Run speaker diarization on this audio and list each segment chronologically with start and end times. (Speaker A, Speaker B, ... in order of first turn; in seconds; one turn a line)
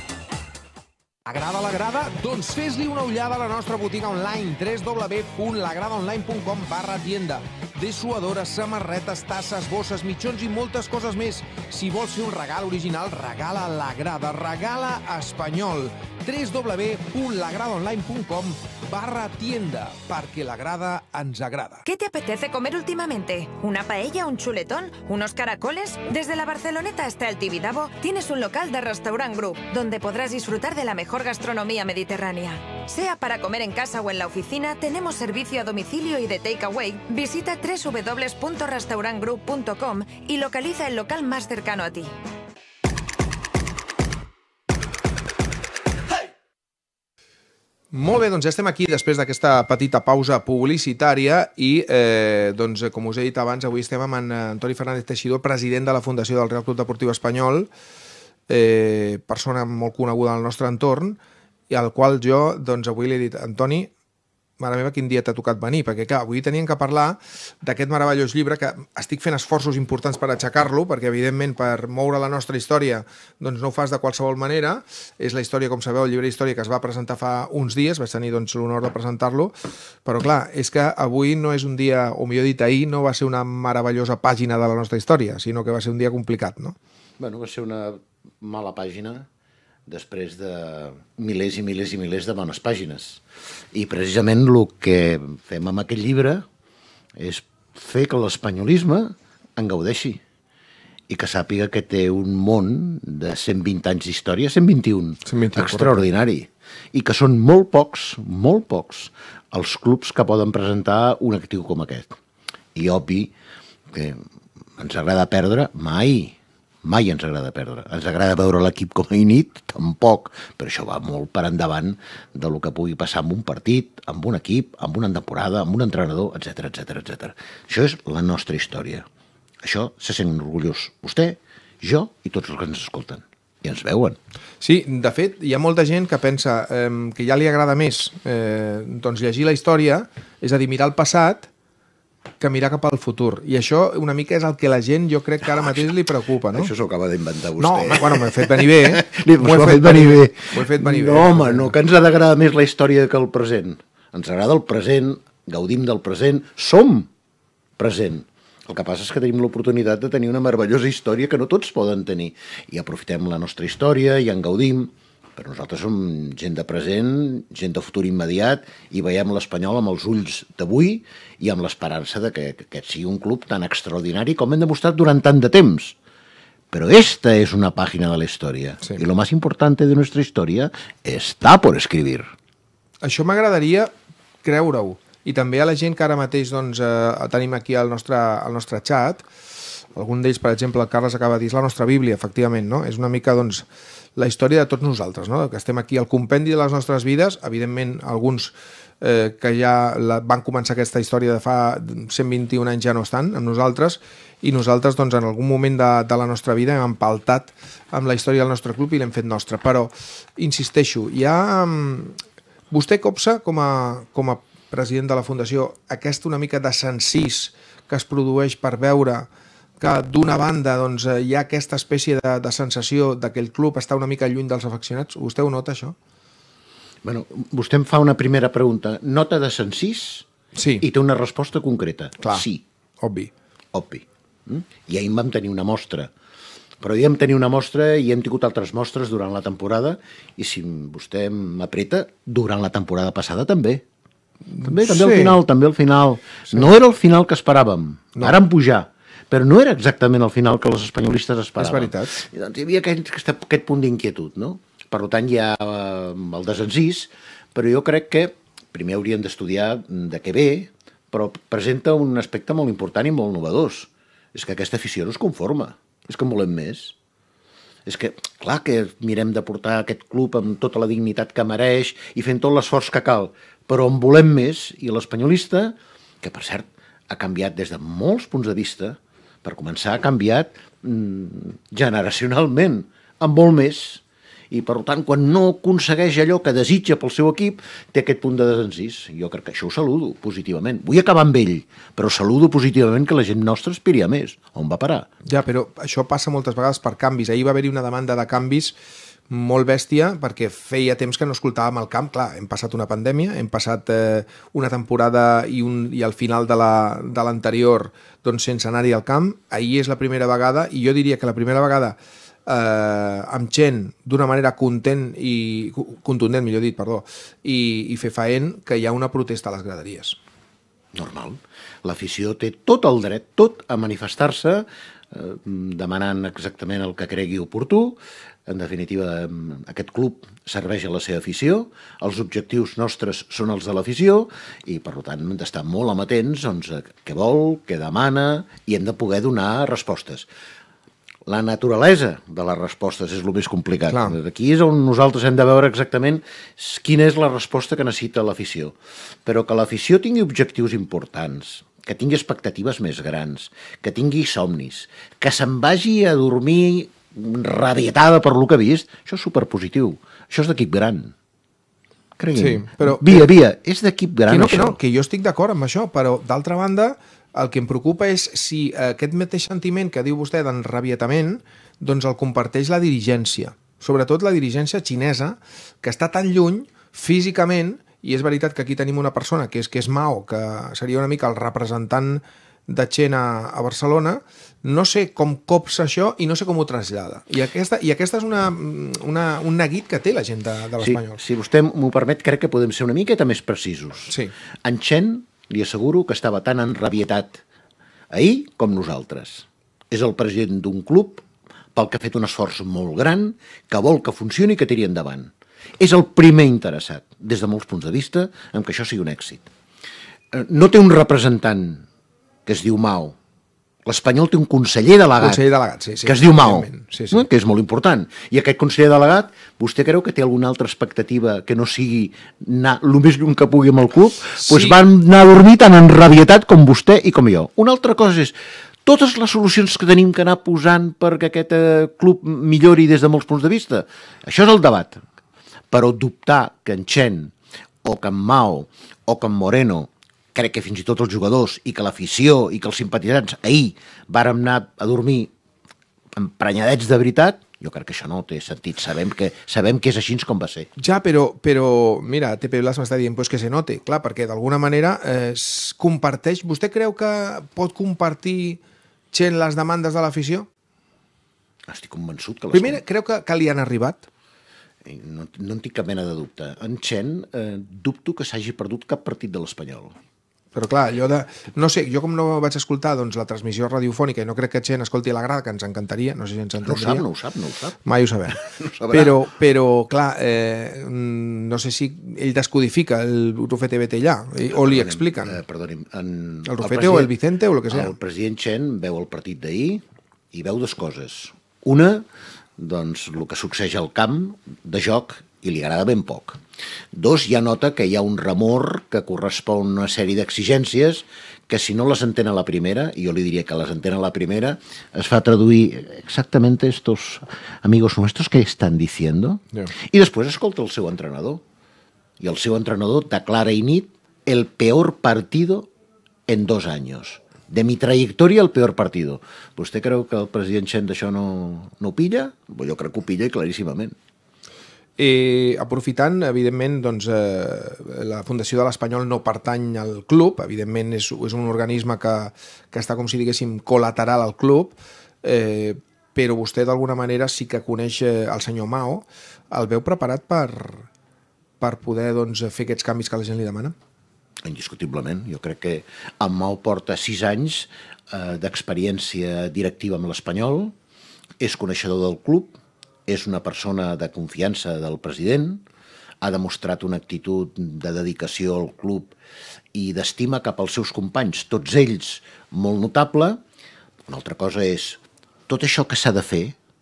Speaker A: 1.2-21.9
Speaker B: 21.9-42.1
Speaker A: 47.9-57.7
Speaker A: 58.5-63.9
Speaker A: 64.6-86.8
Speaker C: 87.2-89.2
Speaker C: 89.9-96.4
Speaker C: 97.2-100.2
Speaker C: 101.1-112.1
Speaker A: 105.2-106.0
Speaker C: 112.7-113.3
Speaker C: 113.9-114.2
Speaker C: 114.8-129.0
Speaker C: 129.6-134.2
Speaker A: 134.6-141.5
Speaker A: 142.4-146.7
Speaker C: 146.5-157.1
Speaker A: 147.6-151.7
Speaker C: 157.8-175.9
Speaker C: 176.7-182.3
Speaker A: 183.0-183.9
Speaker A: 184.4-189.2
Speaker A: 189.9-212.2
Speaker A: 212.7-225.9
Speaker C: 227.0-230.3
Speaker A: 230.6-230.8
Speaker C: 230.8-232.6
Speaker A: 233.0-233.3
Speaker C: 233.7-236.1
Speaker C: 236.8-243.8
Speaker A: 244.6-245.4
Speaker C: 244.6-266.9
Speaker A: 251.6-252.1
Speaker C: 267.9-295.1
Speaker A: 295.2-298.8
Speaker A: 299.3-320.2
Speaker C: 320.9-340.3
Speaker C: 341.2-361.1
Speaker A: 343.9-344.1
Speaker C: 362.2-364.8
Speaker A: 362.4-363.3
Speaker A: 364.3-391.2
Speaker C: 390.8-397.4
Speaker C: 398.1-409.5
Speaker C: 410.3-411.8
Speaker C: 412.4-413.1
Speaker C: 413.9-415.4
Speaker A: 415.2-417.2
Speaker C: 416.0-435.0
Speaker A: 424.4-424.7
Speaker C: 435.7-437.3
Speaker C: 437.8-445.3
Speaker C: 446.1-450.7
Speaker A: 450.8-458.6
Speaker A: 459.1-460.5
Speaker C: 461.7-462.8
Speaker A: 462.5-464.1
Speaker C: 464.8-469.9
Speaker A: 470.5-477.0
Speaker C: 476.6-477.8
Speaker A: 477.8-485.4
Speaker C: 478.6-479.1
Speaker C: 484.5-487.1
Speaker A: 486.5-487.9
Speaker C: 487.7-489.8
Speaker C: 490.3-492.1
Speaker C: 492.6-496.4
Speaker C: 496.9-511.4
Speaker C: 512.2-515.7
Speaker C: 516.3-523.9
Speaker A: 525.0-540.9
Speaker A: 541.6-543.7
Speaker C: 544.4-550.7
Speaker C: 551.4-552.5
Speaker C: 553.1-555.6
Speaker C: 556.2-559.1
Speaker C: 559.7-563.4
Speaker C: 564.1-566.5